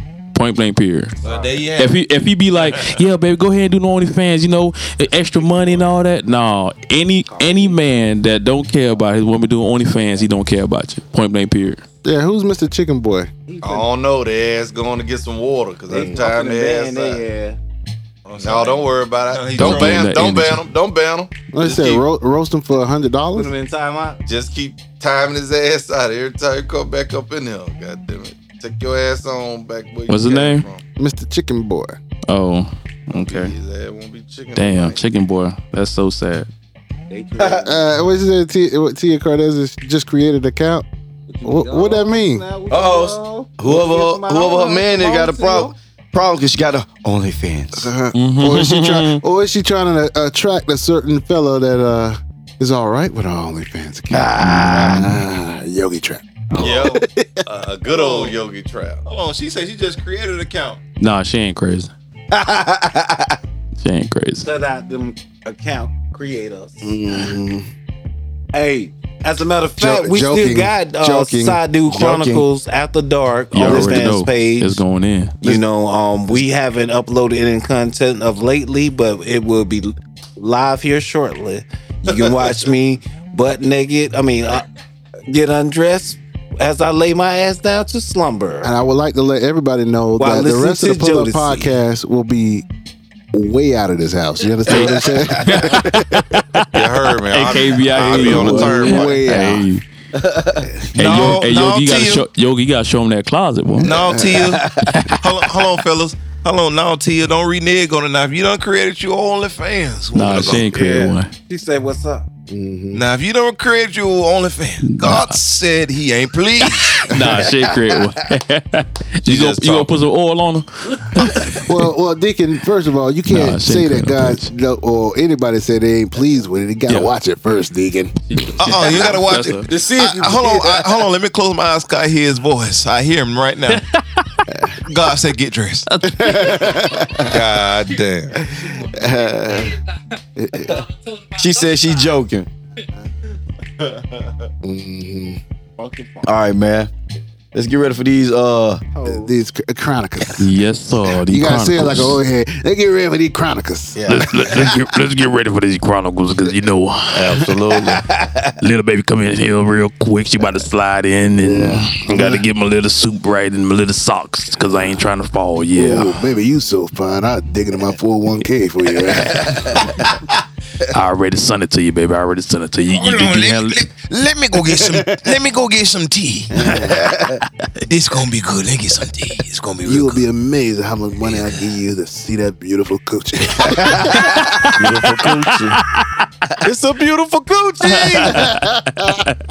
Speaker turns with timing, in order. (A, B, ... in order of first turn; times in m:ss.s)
0:00.3-0:01.1 A
0:01.2-0:02.0 B
0:01.2-0:01.5 C
0:01.8-0:11.8 A
0:07.3-0:07.8 C
0:12.0-0:13.3 D
0:13.5-0:13.8 C
0:13.6-0:17.2 E
0:15.9-0:17.6 C
0:18.2-0:20.0 B
0:18.4-0:21.4 E
0:19.6-0:20.6 A
0:21.5-0:23.5 D
0:21.6-0:22.0 B
0:23.3-0:24.2 C
0:24.2-0:30.8 E
0:30.1-0:30.7 A
0:31.0-0:32.0 D
0:32.3-0:33.5 A
0:33.1-0:35.0 E
0:34.5-0:36.5 A
0:37.1-0:37.9 C
0:37.6-0:40.8 D
0:41.3-0:45.7 C
0:41.4-0:42.5 D
0:42.7-0:47.9 F
0:47.7-0:57.4 D
0:48.1-0:49.2 A
0:54.2-0:54.9 F
0:54.4-0:55.1 A
0:56.6-0:59.0 E
0:57.9-0:58.3 B
0:59.0-1:00.8 B
1:01.0-1:01.9 A
1:02.4-1:03.1 F
1:03.8-1:04.5 A
1:04.4-1:07.3 C
1:06.8-1:07.7 D
1:08.5-1:14.8 C
1:09.8-1:11.7 D
1:11.8-1:12.4 F
1:13.5-1:15.4 A
1:13.6-1:14.0 F
1:15.4-1:24.6 C
1:25.3-1:28.7 C
1:28.6-1:32.7 D
1:30.2-1:31.8 C
1:33.3-1:36.2 D
1:34.7-1:39.8 A
1:36.7-1:39.2 E
1:38.0-1:39.7 D
1:40.2-1:40.5 F
1:40.9-1:43.9 A
1:41.0-1:42.2 B
1:43.8-1:44.6 D
1:43.8-1:44.6 B
1:44.8-1:45.2 A
1:45.2-1:50.7 B
1:50.1-1:51.3 A
1:50.6-1:52.3 C
1:52.5-1:53.0 D
1:52.9-1:57.1 B
1:54.8-1:55.4 A
1:57.1-2:01.7 A
1:59.3-1:59.9 E
2:01.6-2:09.1 D
2:03.3-2:04.5 A
2:06.9-2:07.1 A
2:08.3-2:09.7 A
2:08.6-2:13.8 B
2:09.7-2:10.2 F
2:14.8-2:15.9 B
2:16.0-2:16.4 A
2:16.0-2:17.4 D
2:17.3-2:18.4 E
2:18.4-2:19.7 D
2:20.4-2:20.8 D
2:21.4-2:22.5 F
2:24.6-2:25.4 D
2:25.8-2:26.3 C
2:26.2-2:26.9 F
2:27.5-2:28.8 F
2:28.9-2:29.3 C
2:29.0-2:30.5 D
2:30.4-2:32.2 A
2:31.1-2:34.7 D
2:34.0-2:34.3 F
2:34.0-2:37.5 A
2:37.1-2:38.0 E
2:38.6-2:46.2 A
2:41.4-2:42.4 D
2:45.7-2:50.1 D
2:50.9-2:53.8 A
2:52.9-2:57.0 B
2:54.6-2:55.3 D
2:56.5-2:57.2 D
2:57.9-3:00.2 B
2:59.8-3:04.3 D
3:01.2-3:01.6 B
3:04.2-3:05.6 A
3:04.8-3:05.8 E
3:06.6-3:08.4 E
3:07.9-3:09.3 A
3:08.4-3:09.0 D